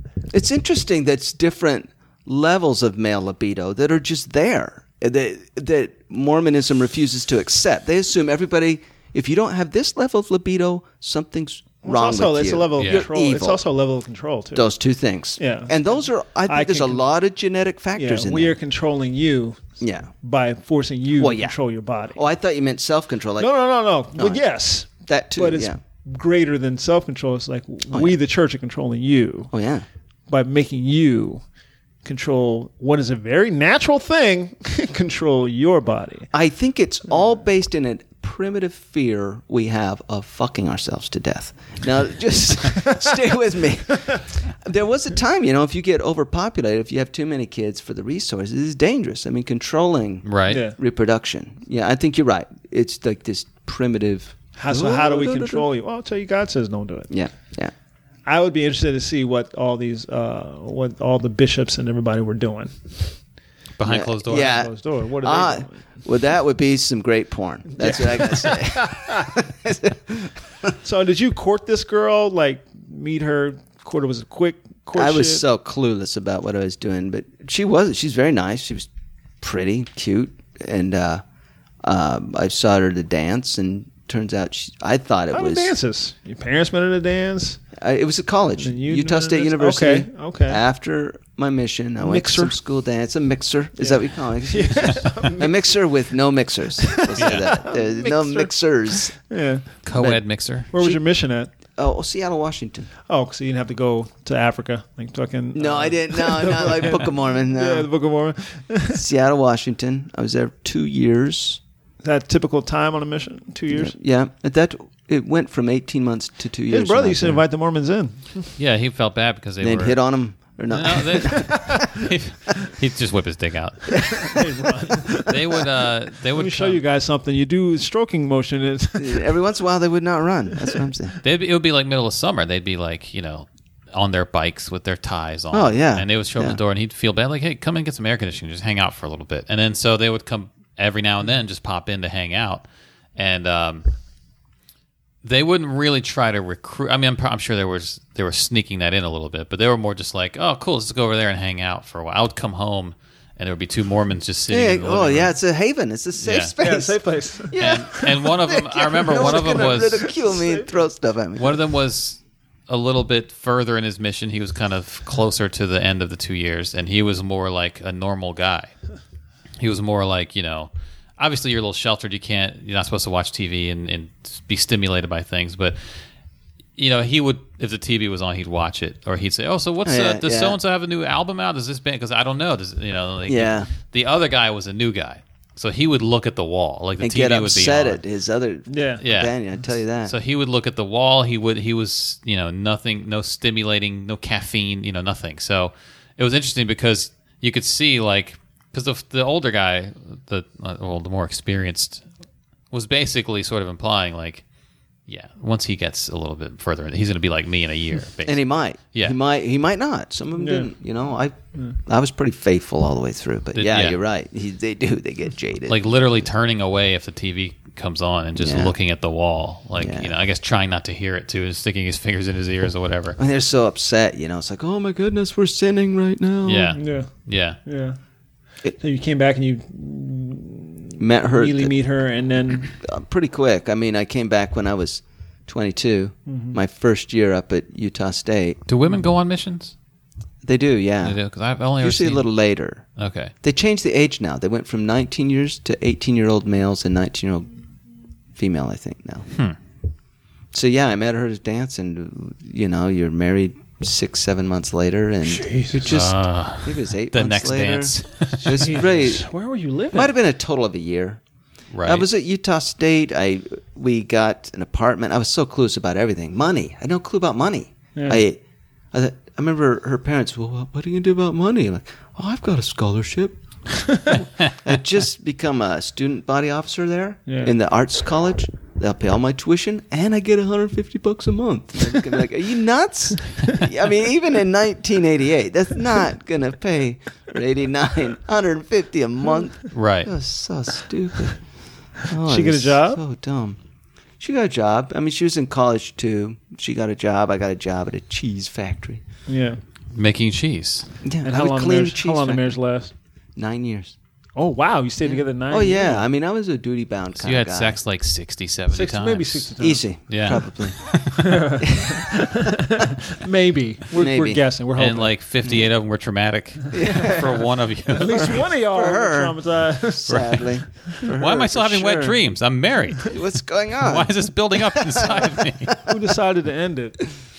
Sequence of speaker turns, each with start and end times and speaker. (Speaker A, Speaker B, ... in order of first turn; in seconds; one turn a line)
Speaker A: 0.3-13.6
Speaker B: 11.8-14.6
Speaker C: 12.8-13.1
Speaker A: 14.5-18.6
Speaker B: 15.4-17.1
Speaker B: 17.9-22.2
Speaker A: 19.8-20.1
Speaker A: 21.2-21.6
Speaker A: 22.1-23.5
Speaker B: 23.4-29.5
Speaker A: 24.2-25.8
Speaker A: 27.9-28.2
Speaker A: 29.5-29.9
Speaker B: 30.3-31.4
Speaker B: 32.0-36.3
Speaker A: 36.3-55.7
Speaker C: 50.2-50.6
Speaker B: 50.5-50.8
Speaker B: 54.6-57.1
Speaker A: 57.1-57.7
Speaker B: 58.3-63.1
Speaker C: 63.8-64.7
Speaker A: 63.9-70.7
Speaker B: 64.3-65.8
Speaker B: 67.7-69.3
Speaker B: 70.8-75.5
Speaker A: 74.9-78.9
Speaker A: 79.4-81.2
Speaker A: 81.8-85.7
Speaker B: 85.3-87.6
Speaker A: 87.8-99.2
Speaker B: 88.6-90.6
Speaker B: 92.0-92.5
Speaker B: 93.8-95.6
Speaker B: 96.9-99.7
Speaker C: 97.2-97.5
Speaker C: 99.8-100.7
Speaker A: 100.0-100.2
Speaker B: 100.7-101.5
Speaker A: 100.7-101.0
Speaker A: 101.8-102.9
Speaker B: 103.1-109.0
Speaker A: 105.5-107.9
Speaker A: 108.9-111.6
Speaker B: 112.0-114.0
Speaker A: 113.7-117.5
Speaker B: 116.7-118.5
Speaker C: 118.6-120.0
Speaker A: 119.6-122.1
Speaker C: 120.7-124.4
Speaker B: 121.3-121.8
Speaker B: 124.0-125.3
Speaker C: 125.2-126.8
Speaker B: 126.3-129.3
Speaker A: 129.0-131.2
Speaker C: 131.2-142.7
Speaker A: 135.5-136.6
Speaker C: 143.2-143.9
Speaker C: 145.2-155.3
Speaker A: 154.5-161.6
Speaker C: 156.2-156.5
Speaker B: 156.6-158.0
Speaker C: 157.6-160.2
Speaker B: 159.1-160.8
Speaker C: 161.4-168.7
Speaker C: 169.6-175.9
Speaker C: 176.8-188.0
Speaker A: 179.8-180.6
Speaker A: 183.3-183.7
Speaker A: 187.0-190.1
Speaker B: 188.7-189.0
Speaker C: 189.0-189.3
Speaker C: 190.0-202.1
Speaker C: 202.7-204.4
Speaker C: 205.1-209.2
Speaker A: 208.2-215.8
Speaker B: 210.3-210.7
Speaker C: 213.5-214.0
Speaker C: 215.7-223.2
Speaker A: 218.4-218.8
Speaker A: 219.8-220.1
Speaker A: 223.2-226.8
Speaker C: 226.4-227.6
Speaker B: 226.8-227.1
Speaker B: 227.7-228.0
Speaker B: 228.8-232.8
Speaker A: 231.0-231.7
Speaker A: 232.8-238.6
Speaker B: 236.3-236.6
Speaker C: 238.7-239.7
Speaker A: 240.4-241.2
Speaker C: 241.0-242.3
Speaker A: 241.8-242.8
Speaker C: 243.0-243.3
Speaker A: 243.4-247.5
Speaker A: 248.3-249.3
Speaker A: 250.5-259.3
Speaker B: 255.2-256.0
Speaker C: 255.8-258.7
Speaker B: 258.4-260.1
Speaker A: 259.9-261.2
Speaker C: 261.7-262.1
Speaker A: 261.8-268.4
Speaker B: 267.9-268.2
Speaker A: 268.9-273.4
Speaker A: 274.1-291.4
Speaker B: 277.3-277.6
Speaker C: 289.7-290.1
Speaker A: 292.0-293.6
Speaker B: 292.2-293.0
Speaker A: 294.2-299.0
Speaker B: 299.3-299.6
Speaker C: 299.9-300.9
Speaker A: 301.0-302.6
Speaker B: 301.2-302.9
Speaker A: 303.4-304.0
Speaker B: 304.4-306.0
Speaker A: 305.4-307.8
Speaker C: 307.2-309.5
Speaker B: 308.7-309.8
Speaker A: 309.6-312.5
Speaker C: 310.1-311.1
Speaker B: 311.1-315.1
Speaker A: 313.9-314.4
Speaker C: 314.8-318.4
Speaker A: 316.7-317.3
Speaker B: 316.7-320.3
Speaker A: 318.1-322.2
Speaker C: 320.1-323.2
Speaker A: 323.1-325.8
Speaker C: 323.8-325.8
Speaker B: 325.8-327.0